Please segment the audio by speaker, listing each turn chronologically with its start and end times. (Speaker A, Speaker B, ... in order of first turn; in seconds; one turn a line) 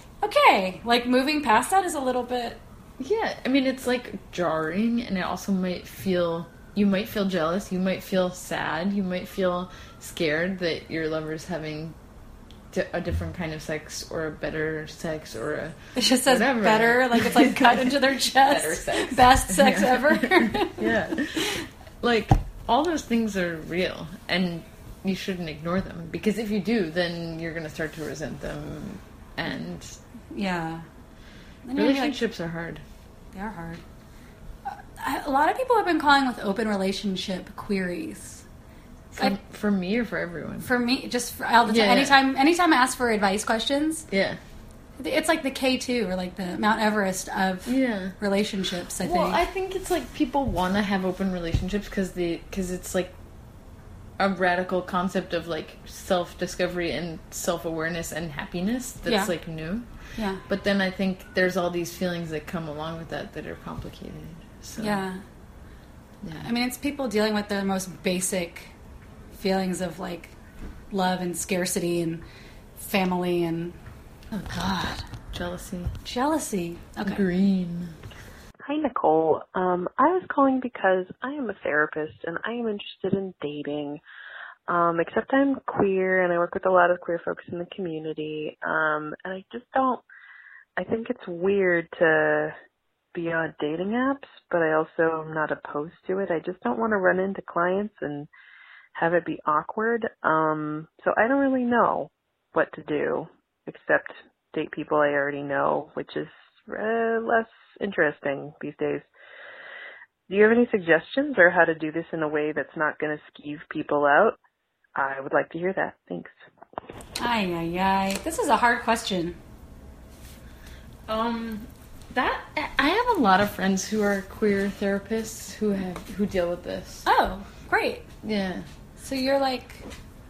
Speaker A: 0.2-2.6
Speaker B: 3.0-12.0
Speaker B: 12.7-30.0
Speaker A: 16.0-21.6
Speaker A: 30.3-30.9
Speaker A: 31.6-32.2
Speaker B: 31.8-32.8
Speaker A: 33.3-33.8
Speaker A: 34.6-38.4
Speaker B: 39.1-40.7
Speaker A: 40.6-44.1
Speaker B: 41.6-42.2
Speaker B: 44.1-44.4
Speaker A: 45.0-49.4
Speaker B: 47.6-48.1
Speaker B: 49.0-53.1
Speaker B: 54.2-59.9
Speaker A: 59.1-59.3
Speaker A: 60.2-60.4
Speaker B: 60.5-65.0
Speaker A: 64.8-65.2
Speaker B: 66.2-66.5
Speaker A: 66.4-68.7
Speaker A: 69.3-70.3
Speaker A: 70.9-72.2
Speaker A: 72.8-73.8
Speaker B: 74.3-75.9
Speaker A: 74.5-75.0
Speaker A: 76.0-77.2
Speaker B: 77.0-78.0
Speaker C: 78.6-84.0
Speaker C: 84.7-90.0
Speaker C: 90.8-92.5
Speaker C: 93.1-98.3
Speaker C: 98.9-109.1
Speaker C: 110.3-114.4
Speaker C: 115.0-116.3
Speaker A: 117.2-119.4
Speaker B: 121.1-127.1
Speaker A: 127.1-128.1
Speaker B: 128.2-128.7
Speaker A: 129.0-129.9